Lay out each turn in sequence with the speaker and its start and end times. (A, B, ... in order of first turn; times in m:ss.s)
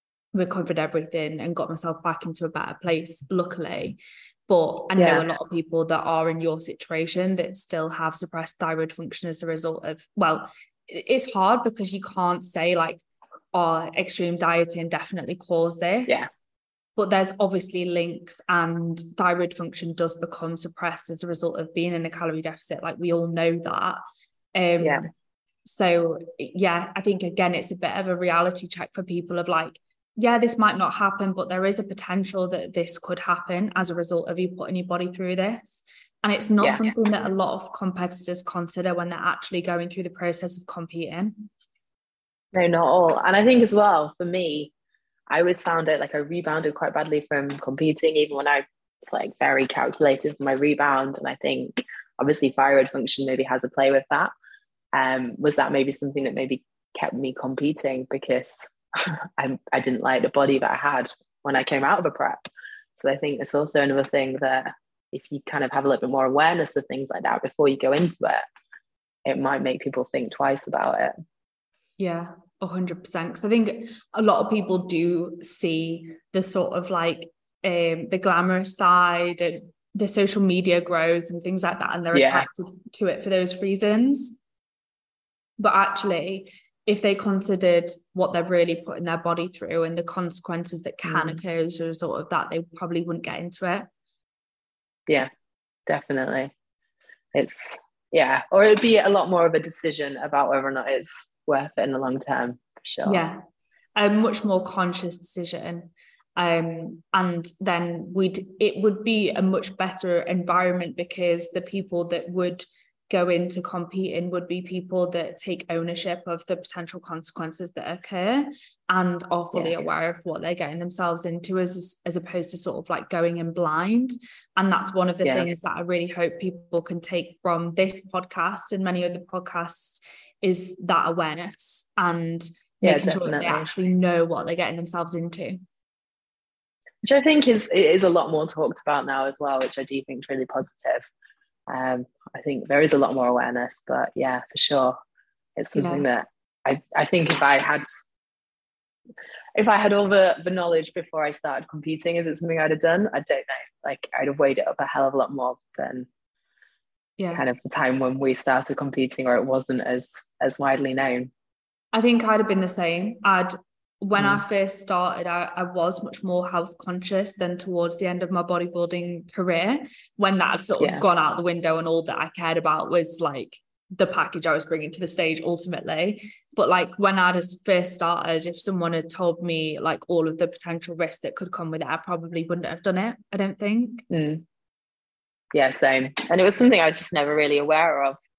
0:00.3-0:13.0 A
0:05.0-0:05.2 B
0:13.5-0:16.4 A
0:17.0-0:24.0 A
0:24.6-0:25.0 A
0:25.6-0:41.5 A
0:36.6-0:36.9 B
0:42.5-0:44.7 B
0:45.3-0:54.3 B
0:54.9-1:02.5 B
1:03.0-1:08.4 B
1:09.3-1:11.1 B
1:12.0-1:24.4 A
1:22.1-1:22.5 B
1:25.6-1:33.9 A
1:31.1-1:31.4 B
1:35.9-1:36.5 B
1:37.3-1:43.2 B
1:43.1-1:43.4 A
1:44.0-2:15.6 A
2:05.2-2:05.5 B
2:12.8-2:13.7 B
2:17.0-2:21.1 B
2:21.7-2:25.0 B
2:25.6-2:27.9 B
2:25.8-2:26.1 A
2:29.6-2:36.1 B
2:37.2-2:37.4 A
2:37.3-2:41.3 B
2:41.9-3:04.1 A
2:50.8-2:51.0 B
3:04.1-3:04.4 B
3:05.5-3:08.2 B